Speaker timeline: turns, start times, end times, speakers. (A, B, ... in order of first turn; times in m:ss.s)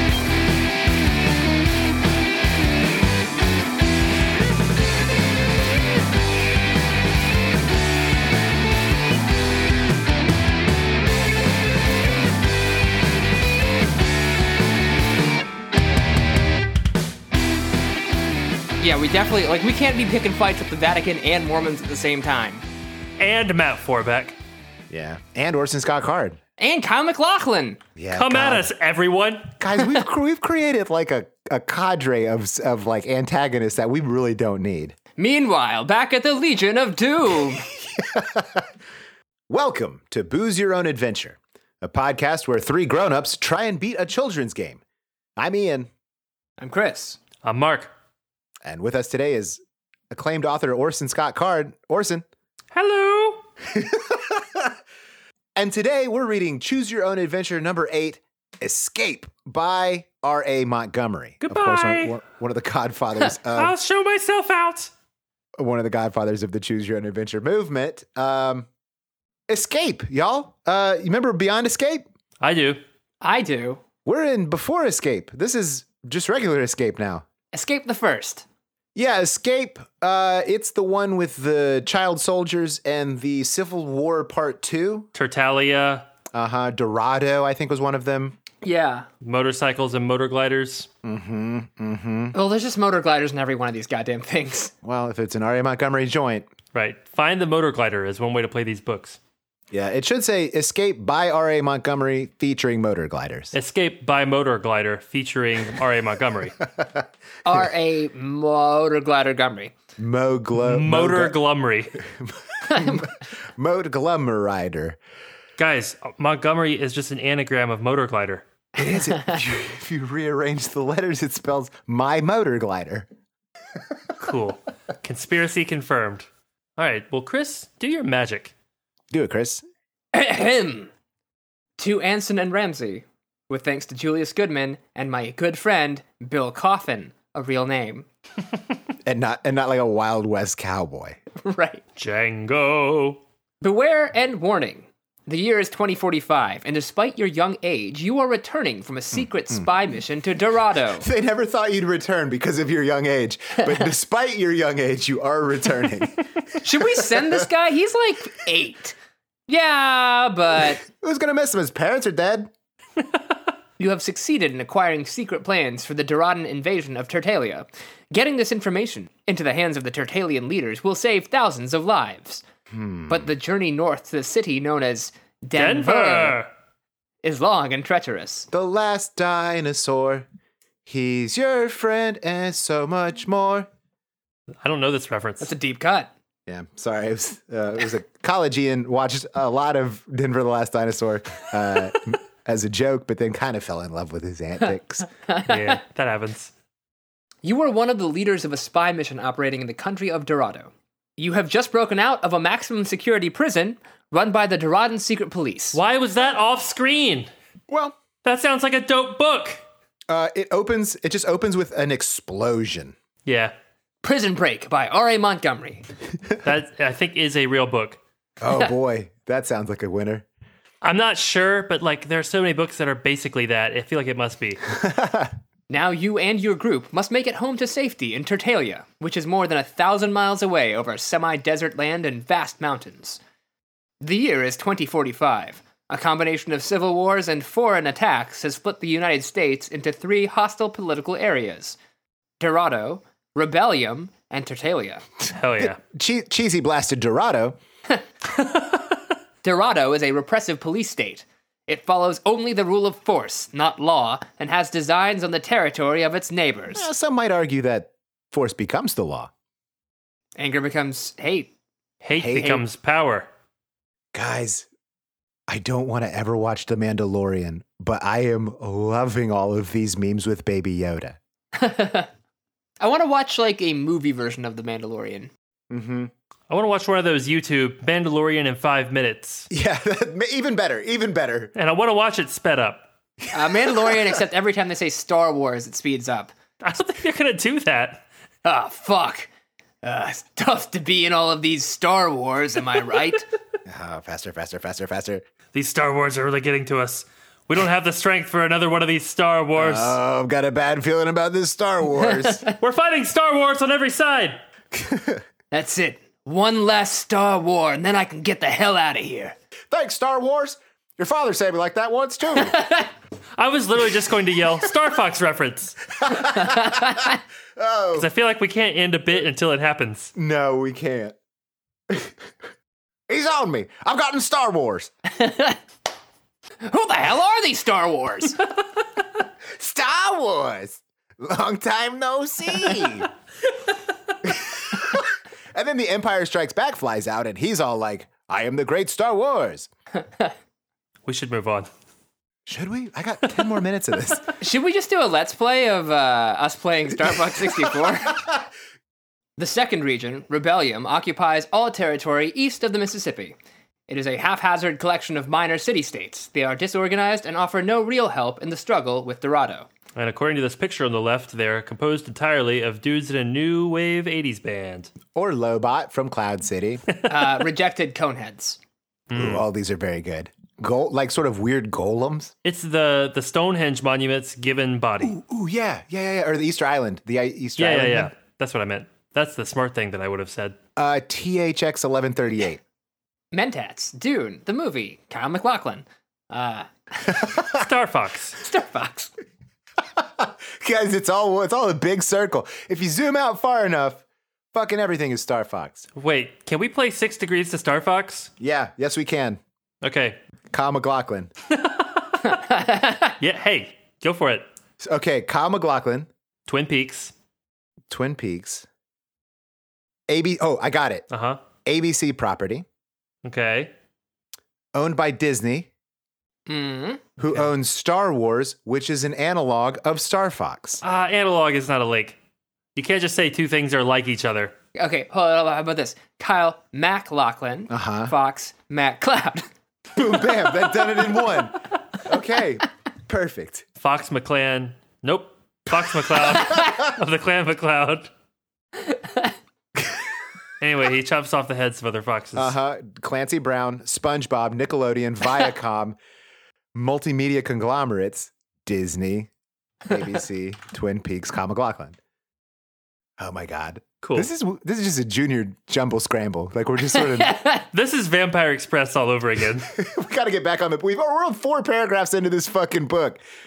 0:18.8-0:22.6 A
0:23.2-0:24.4 B
0:24.9-0:26.4 C
0:26.6-0:27.8 A
0:28.0-0:28.7 C
0:28.1-0:29.5 B
0:29.6-0:34.9 C
0:35.2-0:37.7 A
0:37.8-0:38.6 C
0:39.5-0:44.8 C
0:45.4-0:45.9 C
0:46.6-0:47.2 A
0:47.4-0:47.9 B
0:48.6-0:49.6 C
0:50.1-0:52.2 C
0:52.7-0:53.4 B
0:53.7-0:54.7 C
0:55.6-1:03.8 C
1:01.4-1:02.2 B
1:03.4-1:04.9 B
1:05.6-1:08.7 C
1:09.5-1:12.0 C
1:12.4-1:12.8 B
1:13.2-1:13.8 A
1:14.0-1:17.2 C
1:17.5-1:18.4 A
1:18.9-1:25.1 C
1:25.1-1:26.0 B
1:26.3-1:28.4 C
1:28.6-1:29.1 A
1:29.2-1:30.9 B
1:31.0-1:32.3 C
1:32.3-1:34.7 A
1:34.8-1:36.5 C
1:36.7-1:39.2 B
1:39.7-1:43.5 C
1:43.5-1:46.6 B
1:46.8-1:47.0 C
1:47.4-1:49.7 A
1:50.0-1:51.4 C
1:50.6-1:52.0 B
1:52.1-1:55.0 C
1:52.7-1:53.0 A
1:55.6-1:58.4 B
1:58.8-2:03.1 C
2:04.2-2:08.5 B
2:09.1-2:09.6 C
2:10.1-2:10.9 A
2:11.8-2:18.0 A
2:19.0-2:21.2 C
2:21.4-2:21.8 A
2:22.0-2:23.2 B
2:23.6-2:31.1 A
2:31.0-2:36.3 C
2:36.6-2:38.9 A
2:36.8-2:37.5 C
2:39.5-2:40.8 A
2:40.8-2:42.5 C
2:43.8-2:52.4 A
2:52.7-2:53.3 C
2:53.1-2:56.4 A
2:55.5-2:56.5 B
2:57.2-2:58.5 A
2:58.5-3:00.3 C
3:00.8-3:03.7 C
3:04.6-3:05.5 B
3:05.4-3:06.1 A
3:06.5-3:15.1 C
3:15.3-3:15.5 A
3:15.4-3:16.5 B
3:17.4-3:25.8 A
3:25.7-3:27.3 B
3:27.7-3:28.0 C
3:28.2-3:29.6 B
3:30.1-3:32.9 C
3:33.2-3:33.5 B
3:34.0-3:35.8 A
3:36.4-3:38.0 B
3:38.4-3:40.2 C
3:40.8-3:44.6 B
3:44.7-3:45.3 C
3:45.7-3:53.2 A
3:54.0-4:01.8 A
4:02.4-4:05.0 A
4:05.3-4:05.8 B
4:05.6-4:07.6 C
4:09.4-4:16.9 A
4:16.7-4:19.3 C
4:20.4-4:21.5 A
4:22.0-4:23.3 B
4:22.2-4:22.6 C
4:24.1-4:24.7 C
4:25.5-4:31.2 C
4:31.5-4:32.1 A
4:32.8-4:35.3 A
4:35.7-4:36.1 C
4:36.5-4:39.5 B
4:39.5-4:41.5 C
4:41.6-4:42.9 B
4:43.3-4:46.3 A
4:43.4-4:44.0 C
4:46.6-4:48.0 B
4:48.4-4:49.3 A
4:49.8-4:53.2 A
4:53.7-4:55.2 C
4:55.5-5:00.0 B
4:59.6-5:02.4 C
5:02.5-5:04.4 B
5:04.7-5:05.2 C
5:05.5-5:09.4 A
5:09.7-5:12.6 C
5:12.5-5:12.9 A
5:13.4-5:15.9 B
5:16.0-5:18.1 C
5:16.4-5:17.2 A
5:17.9-5:20.1 B
5:20.2-5:21.2 C
5:23.1-5:24.9 C
5:25.2-5:25.6 A
5:26.6-5:28.4 A
5:29.5-5:33.1 C
5:32.5-5:32.9 A
5:34.2-5:39.7 C
5:41.0-5:41.7 B
5:42.4-5:44.2 C
5:44.4-5:48.2 A
5:49.4-5:53.4 A
5:53.9-5:59.7 A
6:00.0-6:04.9 B
6:05.1-6:06.8 C
6:07.0-6:08.6 A
6:09.1-6:09.4 B
6:09.1-6:12.3 C
6:12.4-6:15.1 B
6:15.0-6:18.1 C
6:17.6-6:20.6 B
6:20.8-6:22.6 C
6:23.3-6:27.2 A
6:27.2-6:27.6 C
6:27.5-6:28.4 B
6:28.4-6:29.1 A
6:30.0-6:35.8 C
6:36.0-6:38.3 B
6:38.4-6:39.4 C
6:39.8-6:40.2 B
6:40.5-6:41.3 C
6:41.5-6:42.4 B
6:42.3-6:43.1 A
6:43.2-6:44.5 B
6:44.8-6:46.1 C
6:46.5-6:47.1 B
6:47.9-6:48.6 C
6:50.1-6:51.1 C
6:51.1-6:51.4 B
6:51.6-6:52.6 C
6:53.2-6:53.7 B
6:54.7-6:55.7 C
6:56.5-6:57.0 A
6:57.2-7:00.8 C
7:00.8-7:02.2 B
7:02.7-7:04.5 B
7:04.7-7:09.4 A
7:07.7-7:08.1 C
7:09.9-7:13.6 C
7:13.8-7:18.1 B
7:15.8-7:16.9 C
7:20.6-7:22.5 B
7:22.3-7:26.0 C
7:26.7-7:29.3 C
7:29.9-7:32.0 C
7:33.2-7:37.4 C
7:34.0-7:34.3 B
7:37.1-7:37.6 A
7:37.7-7:39.7 B
7:39.7-7:43.2 C